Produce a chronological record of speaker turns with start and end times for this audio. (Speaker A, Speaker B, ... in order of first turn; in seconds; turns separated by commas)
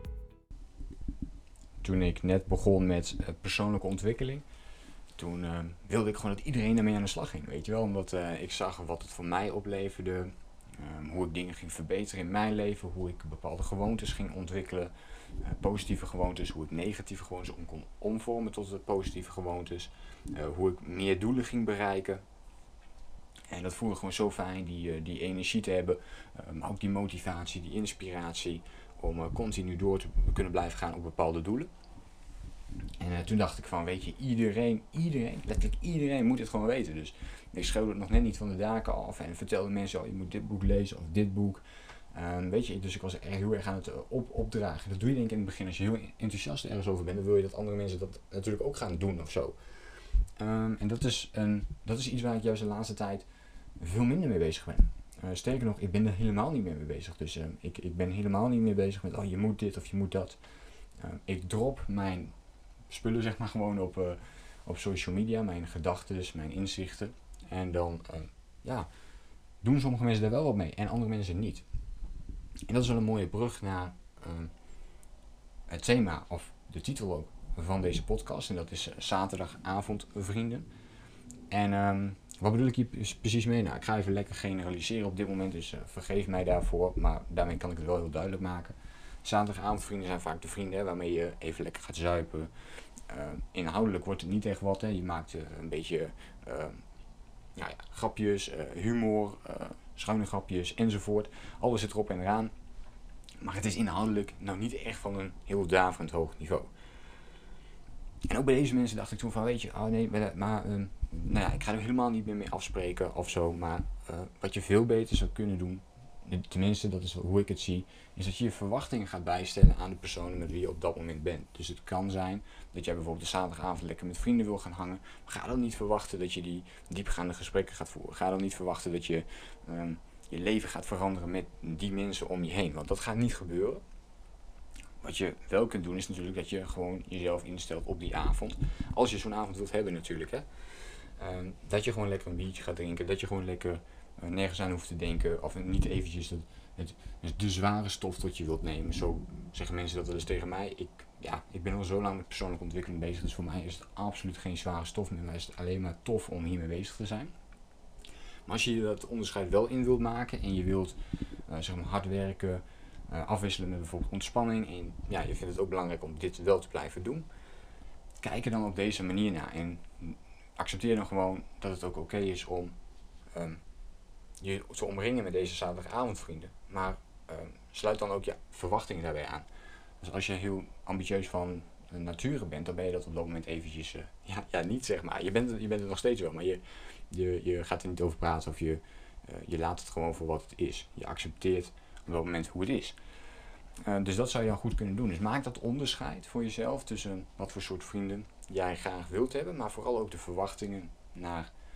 Speaker A: 1.8-4.4, Speaker A: 5.2-22.2, Speaker A: 23.5-31.7, Speaker A: 33.0-49.6, Speaker A: 50.4-53.2, Speaker A: 53.8-60.4, Speaker A: 61.0-62.3, Speaker A: 62.9-68.9, Speaker A: 69.6-71.6, Speaker A: 72.7-74.5, Speaker A: 75.7-80.7, Speaker A: 81.5-92.5, Speaker A: 93.1-96.8, Speaker A: 97.5-102.5, Speaker A: 103.4-106.7, Speaker A: 108.2-133.8, Speaker A: 135.0-140.4, Speaker A: 141.2-157.3, Speaker A: 158.4-160.9, Speaker A: 161.5-167.3, Speaker A: 168.2-172.7, Speaker A: 173.3-173.6, Speaker A: 174.4-179.4, Speaker A: 180.0-192.9, Speaker A: 193.8-201.5